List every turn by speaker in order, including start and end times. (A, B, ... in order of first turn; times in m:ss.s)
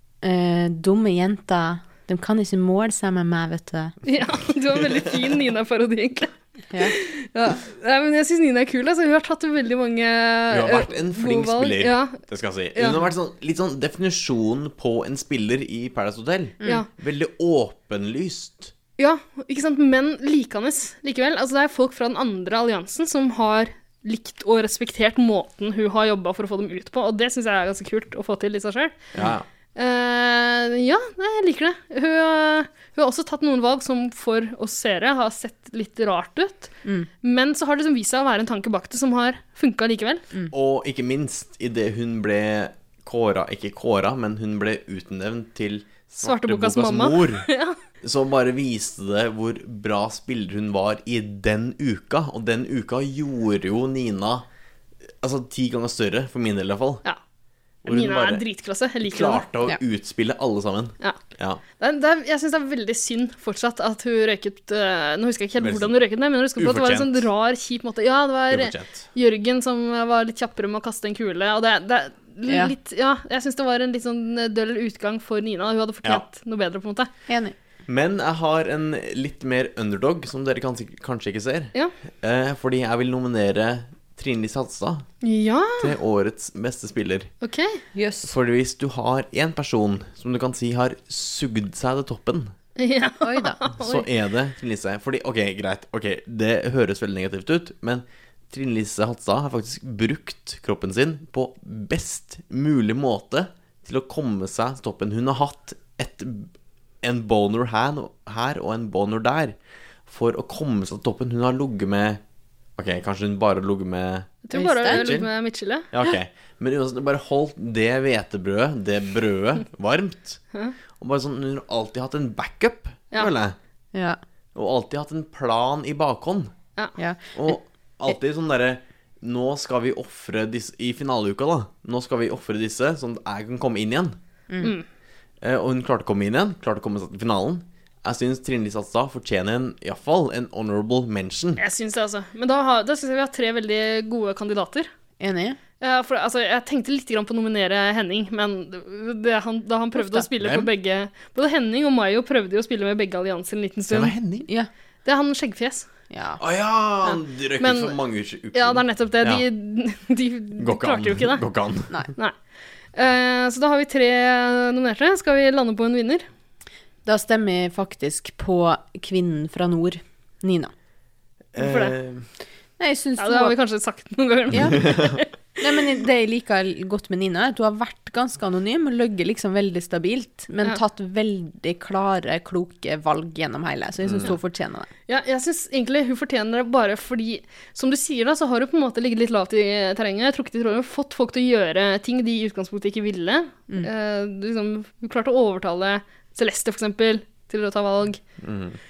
0:00.2-0:04.0 A
0:04.1-0:12.2 B
0:10.5-0:18.7 C
0:12.8-0:13.0 B
0:19.0-0:29.0 B
0:29.2-0:29.4 C
0:29.8-0:36.7 B
0:37.2-0:40.2 B
0:40.5-0:47.5 C
0:46.2-0:47.8 B
0:48.0-0:54.4 C
0:55.2-0:57.0 C
0:57.8-0:58.4 C
0:57.9-0:59.4 B
0:59.0-1:01.6 C
1:01.8-1:17.1 B
1:05.6-1:06.0 C
1:06.6-1:07.3 C
1:08.5-1:09.1 C
1:12.5-1:12.7 A
1:17.3-1:17.6 A
1:17.9-1:25.1 C
1:25.2-1:25.9 B
1:25.8-1:27.3 C
1:27.4-1:27.8 B
1:27.9-1:28.3 A
1:28.2-1:32.5 C
1:32.8-1:34.0 B
1:33.2-1:33.6 A
1:33.8-1:46.5 C
1:47.0-1:49.6 C
1:50.1-1:52.2 C
1:52.8-1:55.3 C
1:54.4-1:55.9 B
1:54.5-1:55.1 A
1:55.9-2:00.4 C
2:01.0-2:03.6 C
2:03.9-2:04.2 A
2:04.6-2:06.5 C
2:07.0-2:08.2 A
2:07.4-2:14.2 C
2:15.4-2:21.6 C
2:21.6-2:24.9 B
2:25.2-2:25.6 A
2:25.8-2:34.1 B
2:30.0-2:30.3 A
2:30.4-2:30.7 C
2:33.9-2:34.5 C
2:35.0-2:35.9 B
2:36.1-2:36.4 A
2:36.4-2:39.4 C
2:37.0-2:38.0 B
2:38.5-2:41.4 B
2:40.6-2:41.9 C
2:42.9-2:46.3 B
2:47.0-2:50.7 A
2:51.6-2:52.3 C
2:51.6-2:52.0 B
2:52.8-2:53.6 A
2:53.2-2:55.3 B
2:54.5-2:54.8 A
2:55.6-3:04.9 A
3:04.0-3:04.3 C
3:05.1-3:18.2 B
3:18.4-3:18.8 C